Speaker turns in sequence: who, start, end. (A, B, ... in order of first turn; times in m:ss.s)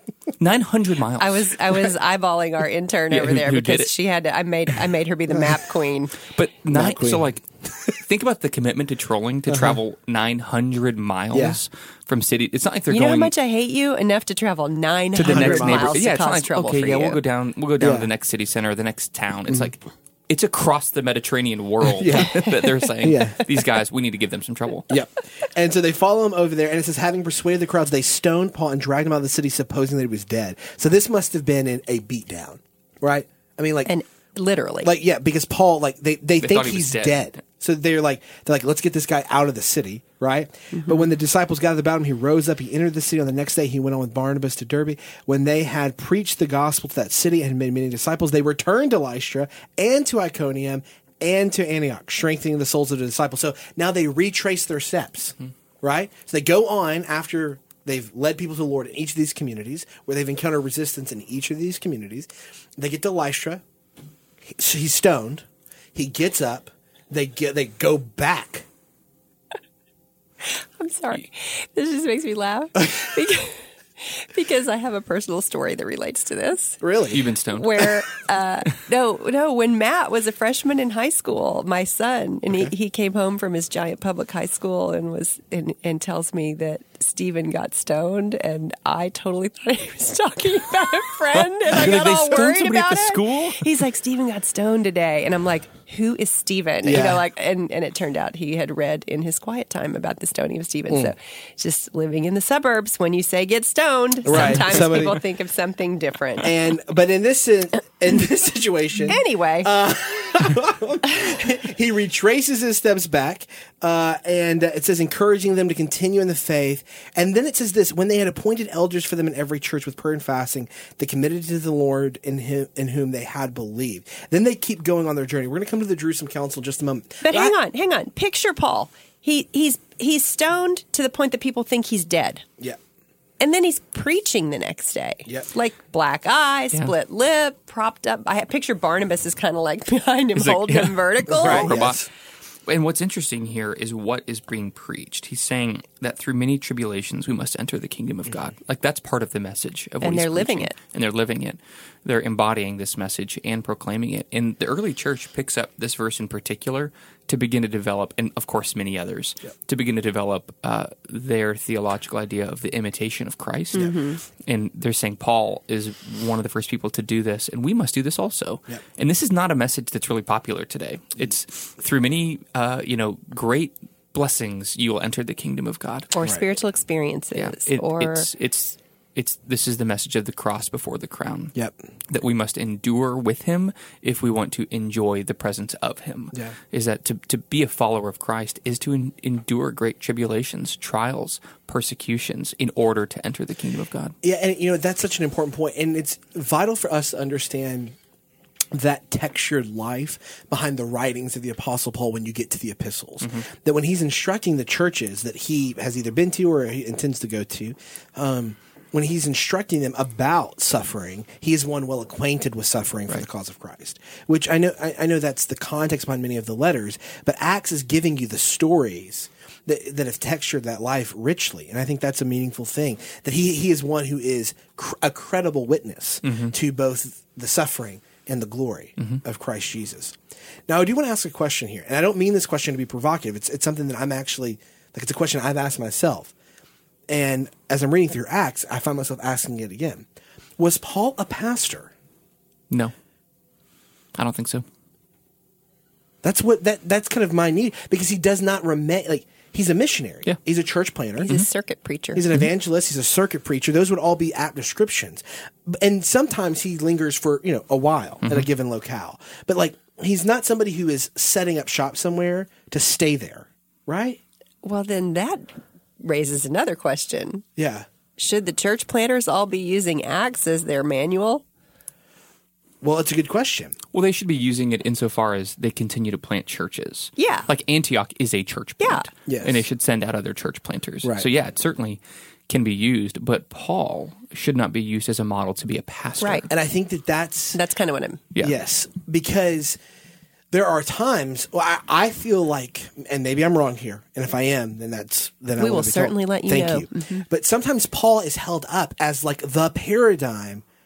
0:00.4-0:01.6 A
0:01.2-0:06.2 B
0:03.1-0:03.9 A
0:06.3-0:13.3 A
0:06.7-0:07.9 C
0:09.5-0:09.8 C
0:11.3-0:11.6 C
0:12.9-0:17.2 B
0:15.1-0:24.9 A
0:15.2-0:16.0 C
0:17.8-0:18.1 C
0:22.0-0:23.7 C
0:24.9-0:33.9 C
0:33.9-0:34.9 B
0:34.8-1:03.6 C
0:36.4-0:37.4 A
0:40.8-0:41.1 B
1:04.4-1:08.7 C
1:10.4-1:16.8 B
1:16.8-1:17.2 C
1:17.1-1:17.8 A
1:17.5-1:46.6 B
1:31.3-1:33.8 A
1:36.8-1:37.2 C
1:40.9-1:41.1 C
1:44.2-1:45.2 C
1:44.3-1:44.6 A
1:46.4-2:07.5 C
1:49.0-1:49.7 B
2:07.2-2:12.4 B
2:13.4-2:21.8 B
2:20.4-2:22.1 A
2:21.4-2:22.1 C
2:22.6-2:56.1 A
2:30.0-2:30.8 B
2:43.7-2:44.2 B
2:56.1-2:58.3 B
2:57.3-3:01.6 A
3:02.1-3:14.1 A
3:14.2-3:18.0 C
3:18.7-3:56.3 C
3:23.2-3:23.5 A
3:46.2-3:46.5 A
3:57.1-4:00.0 C
4:00.6-4:01.9 C
4:04.2-4:04.6 A
4:06.2-4:11.3 C
4:11.2-4:12.3 B
4:12.1-4:24.2 C
4:18.2-4:18.5 A
4:24.6-4:27.4 B
4:27.6-4:27.9 C
4:28.2-4:31.4 B
4:32.8-4:33.8 C
4:33.9-4:46.5 A
4:37.2-4:37.5 B
4:38.8-4:39.1 B
4:39.2-4:39.6 C
4:46.5-4:47.6 C
4:47.5-4:48.2 B
4:48.4-4:49.8 C
4:50.5-5:00.6 C
4:55.6-4:57.2 B